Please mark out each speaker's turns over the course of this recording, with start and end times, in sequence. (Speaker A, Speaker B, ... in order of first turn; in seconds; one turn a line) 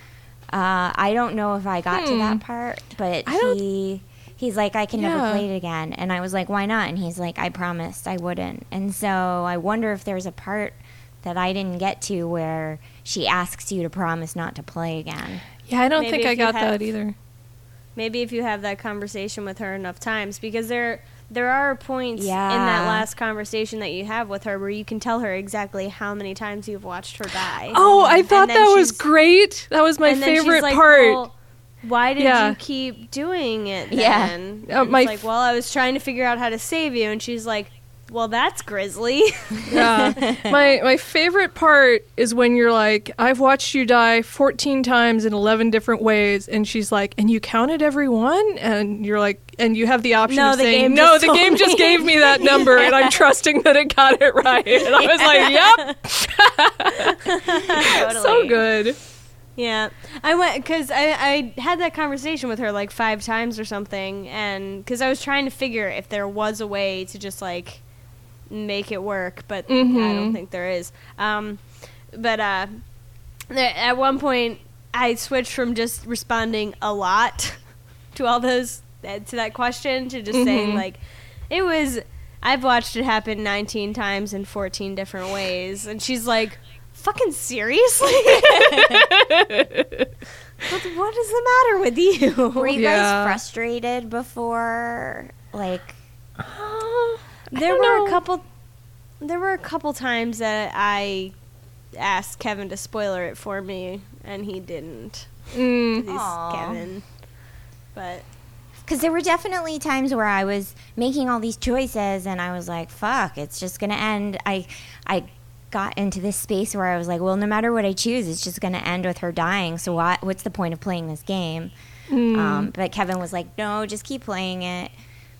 Speaker A: 0.5-15.4
Speaker B: 1.9-2.4
Speaker B: 3.3-3.6
Speaker B: 4.9-5.5
Speaker B: 15.7-17.1
Speaker C: 16.0-16.9
Speaker C: 18.0-29.0
Speaker A: 22.2-23.1
Speaker B: 27.7-31.2
Speaker A: 27.9-28.3
Speaker C: 30.0-40.0
Speaker B: 32.2-32.6
Speaker A: 33.9-34.3
Speaker B: 34.7-35.2
Speaker B: 39.7-57.3
Speaker A: 39.8-40.5
Speaker C: 50.3-53.2
Speaker C: 55.1-56.0
Speaker A: 55.2-55.5
Speaker C: 57.3-58.6
Speaker B: 57.8-59.0
Speaker C: 59.6-67.8
Speaker C: 68.5-72.8
Speaker B: 69.7-70.4
Speaker C: 73.5-77.6
Speaker C: 78.1-89.0
Speaker B: 80.3-80.8
Speaker B: 88.8-89.9
Speaker C: 90.6-92.7
Speaker A: 92.6-96.0
Speaker B: 92.8-93.4
Speaker B: 96.4-98.2
Speaker C: 97.5-98.5
Speaker C: 99.2-101.3
Speaker C: 102.0-105.3
Speaker B: 105.5-106.0
Speaker C: 105.9-107.0
Speaker A: 106.1-106.8
Speaker C: 107.9-108.3
Speaker A: 108.9-121.7
Speaker B: 122.1-122.7
Speaker A: 122.3-124.9